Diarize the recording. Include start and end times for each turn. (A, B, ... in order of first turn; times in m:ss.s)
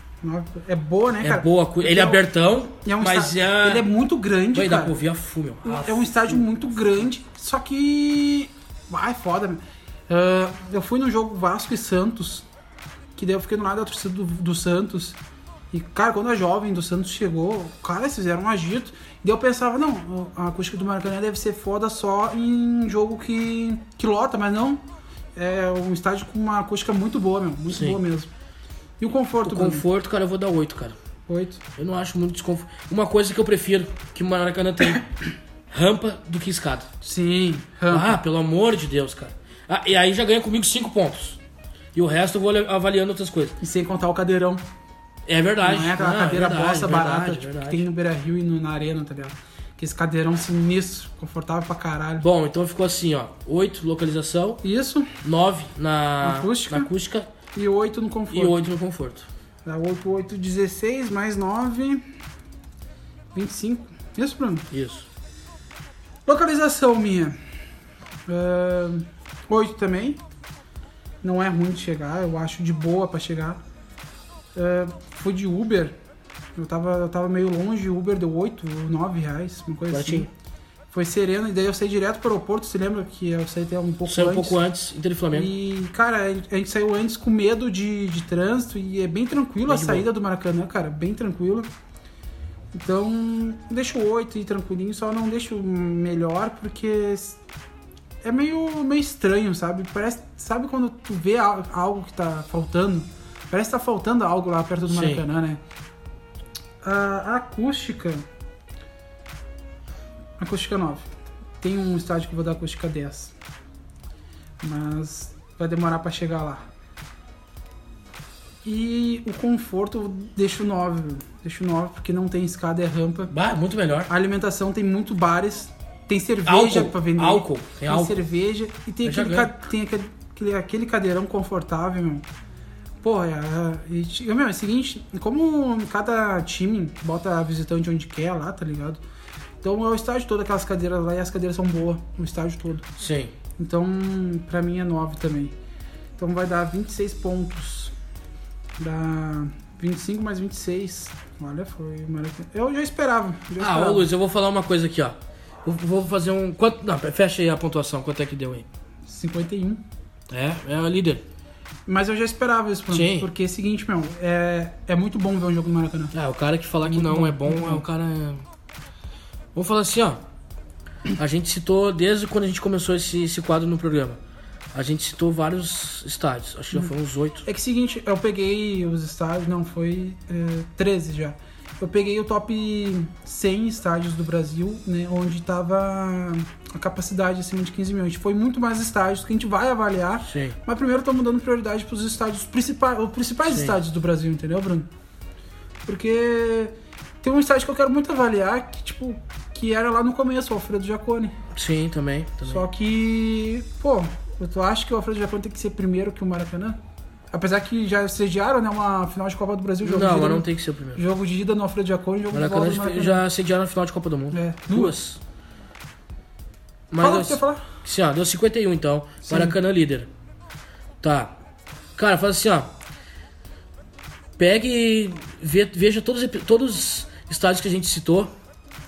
0:00.2-0:02.2 A
0:01.2-0:03.9 B
0:02.8-0:05.0 A
0:04.5-0:06.8 B
0:05.6-0:12.5 A
0:13.2-0:15.2 A
0:15.7-0:24.8 A
0:25.4-0:28.3 A
0:27.7-0:28.0 B
0:29.0-0:29.8 A
0:29.4-0:31.0 B
0:31.3-0:31.6 A
0:31.8-0:35.1 B
0:35.7-0:36.9 B
0:37.0-0:38.2 A
0:37.9-0:41.4 B
0:41.9-0:43.6 B
0:43.6-0:44.6 A
0:45.3-0:47.9 B
0:45.6-0:52.3 A
0:52.2-0:54.6 B
0:54.6-0:55.2 A
0:55.2-0:57.3 B
0:56.2-0:56.9 A
0:57.5-0:58.6 A
0:58.3-0:59.3 B
0:59.6-1:02.1 A
1:03.4-1:04.7 A
1:04.7-1:05.1 B
1:06.3-1:07.4 A
1:08.3-1:10.2 A
1:11.2-1:13.6 A
1:14.6-1:16.0 A
1:16.6-1:20.3 A
1:19.9-1:20.3 B
1:20.9-1:24.6 A
1:24.1-1:25.5 B
1:25.3-1:31.7 A
1:29.7-1:30.1 B
1:32.7-1:37.4 A
1:38.2-1:45.6 A
1:44.9-1:45.2 B
1:46.8-1:48.2 A
1:50.4-1:51.1 A
1:51.6-1:53.3 A
1:54.6-1:56.6 A
1:58.6-2:03.3 A
2:03.3-2:04.1 B
2:04.1-2:12.2 A
2:06.4-2:08.2 B
2:09.0-2:09.5 B
2:13.0-2:19.0 A
2:19.6-2:22.9 A
2:23.0-2:23.3 B
2:23.6-2:25.5 A
2:26.2-2:27.9 A
2:28.8-2:34.1 A
2:33.6-2:38.7 B
2:39.1-2:39.8 A
2:40.3-2:41.2 B
2:41.9-2:46.1 A
2:42.9-2:43.3 B
2:46.1-2:48.4 B
2:46.8-2:47.8 A
2:49.5-2:50.2 B
2:51.2-2:54.2 B
2:54.7-2:57.5 B
2:57.4-3:14.9 A
3:10.3-3:10.6 B
3:13.4-3:13.8 B
3:15.9-3:21.4 A
3:21.5-3:22.6 B
3:22.5-3:26.8 A
3:27.3-3:33.2 A
3:29.8-3:31.0 B
3:32.3-3:35.2 B
3:34.3-3:35.0 A
3:36.9-3:40.1 B
3:37.0-3:37.7 A
3:39.2-3:39.6 A
3:41.0-3:41.4 B
3:42.0-3:42.7 B
3:44.4-3:48.3 B